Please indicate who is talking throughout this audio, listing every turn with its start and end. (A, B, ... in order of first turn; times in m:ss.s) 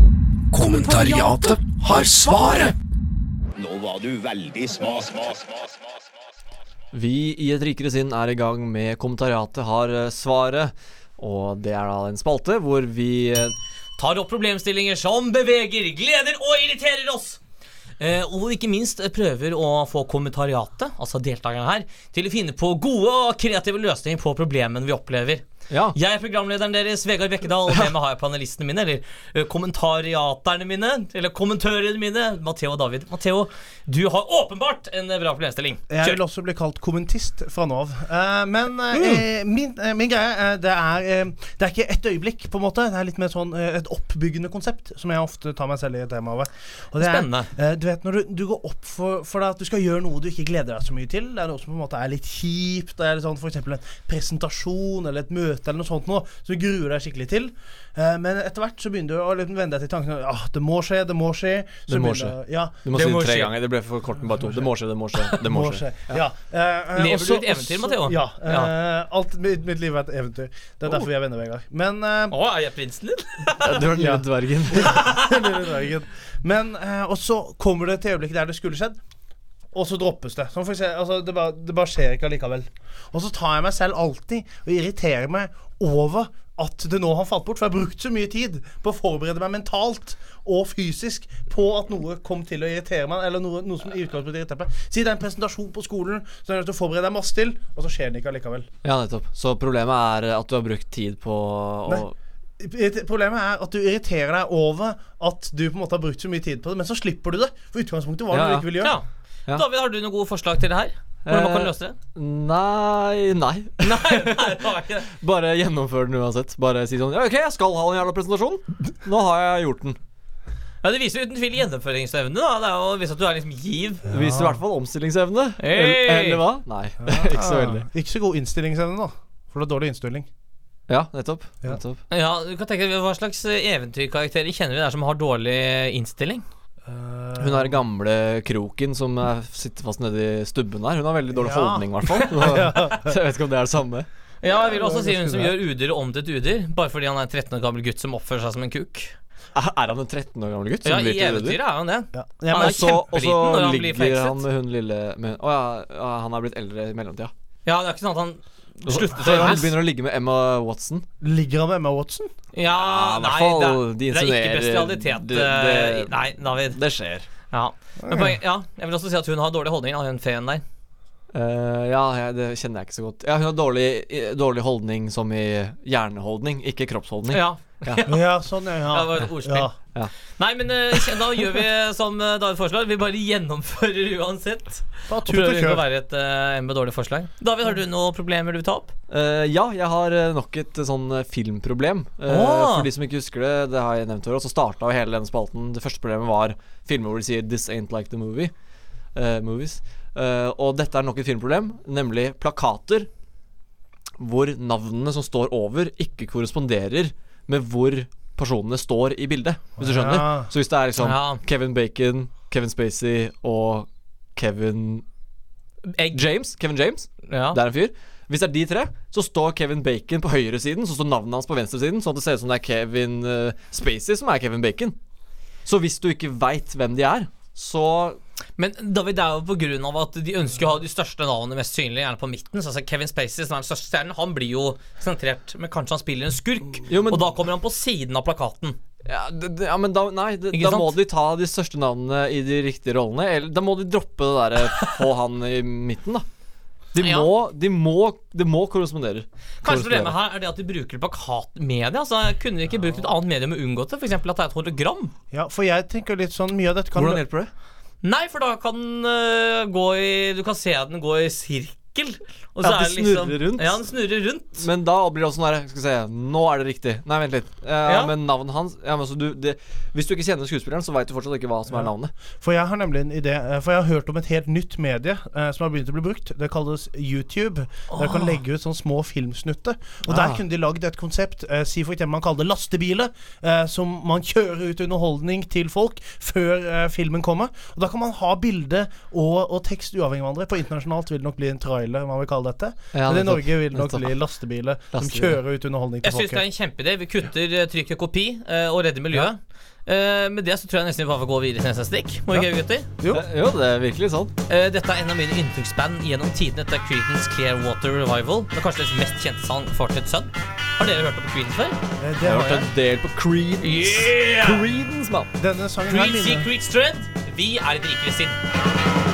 0:00.5-0:02.7 A
0:03.6-0:06.0 B
0:06.9-0:13.5 C
0:14.0-0:17.4 D
0:18.0-0:25.4 D
0:25.7-0:26.0 C
0:25.9-0:36.2 D
0:35.9-1:02.8 E
0:39.0-0:39.2 D
0:47.0-0:47.5 D
1:01.9-1:06.2 C
1:02.9-1:03.5 D
1:04.3-1:04.6 E
1:05.4-1:12.4 E
1:07.0-1:08.7 D
1:12.3-1:13.8 D
1:13.6-1:15.0 C
1:13.9-1:19.0 E
1:14.7-1:15.5 D
1:19.7-1:38.7 E
1:38.8-1:42.2 C
1:42.6-1:49.0 E
1:48.3-1:48.8 C
1:48.8-1:52.0 D
1:51.3-2:00.0 C
1:53.8-1:55.1 D
2:00.8-2:04.0 D
2:04.1-2:04.6 E
2:04.1-2:07.9 C
2:05.6-2:06.4 D
2:07.0-2:10.3 E
2:10.9-2:12.0 C
2:12.1-2:16.4 D
2:16.8-2:17.8 E
2:17.4-2:24.1 C
2:21.3-2:23.2 E
2:24.4-2:29.1 D
2:24.4-2:25.6 E
2:29.6-2:31.6 C
2:30.8-2:34.4 D
2:32.1-2:33.0 E
2:32.5-2:37.3 C
2:37.6-2:39.7 D
2:38.9-2:41.1 C
2:41.2-2:42.3 E
2:42.5-2:46.8 D
2:42.6-2:47.3 C
2:47.5-2:50.6 D
2:48.0-2:48.4 E
2:51.3-2:58.0 C
2:57.3-2:58.2 D
2:58.1-2:59.8 E
2:58.9-2:59.7 D
3:00.4-3:08.9 D
3:05.1-3:05.8 E
3:09.1-3:18.5 C
3:12.3-3:12.9 D
3:19.2-3:23.1 C
3:24.2-3:35.0 C
3:29.8-3:30.5 E
3:31.0-3:31.4 D
3:35.9-3:36.2 D
3:36.1-3:45.0 C
3:37.3-3:37.6 D
3:45.6-3:48.2 C
3:48.6-3:58.8 D
3:56.9-3:57.3 C
3:59.0-4:06.2 C
4:00.5-4:01.0 D
4:06.9-4:10.2 C
4:07.0-4:07.3 D
4:09.6-4:15.1 D
4:15.3-4:17.2 E
4:17.0-4:17.5 C
4:18.0-4:24.6 D
4:22.6-4:23.8 C
4:24.6-4:32.1 C
4:27.8-4:28.1 D
4:31.7-4:56.4 E
4:37.9-4:38.4 D
4:40.1-4:40.4 C
4:52.9-4:54.1 C
4:54.9-4:55.4 C
4:56.0-5:02.9 D
5:03.1-5:04.3 C
5:04.5-5:11.8 D
5:12.0-5:12.7 E
5:12.2-5:15.3 C
5:13.6-5:14.6 D
5:15.4-5:16.5 E
5:15.9-5:18.4 D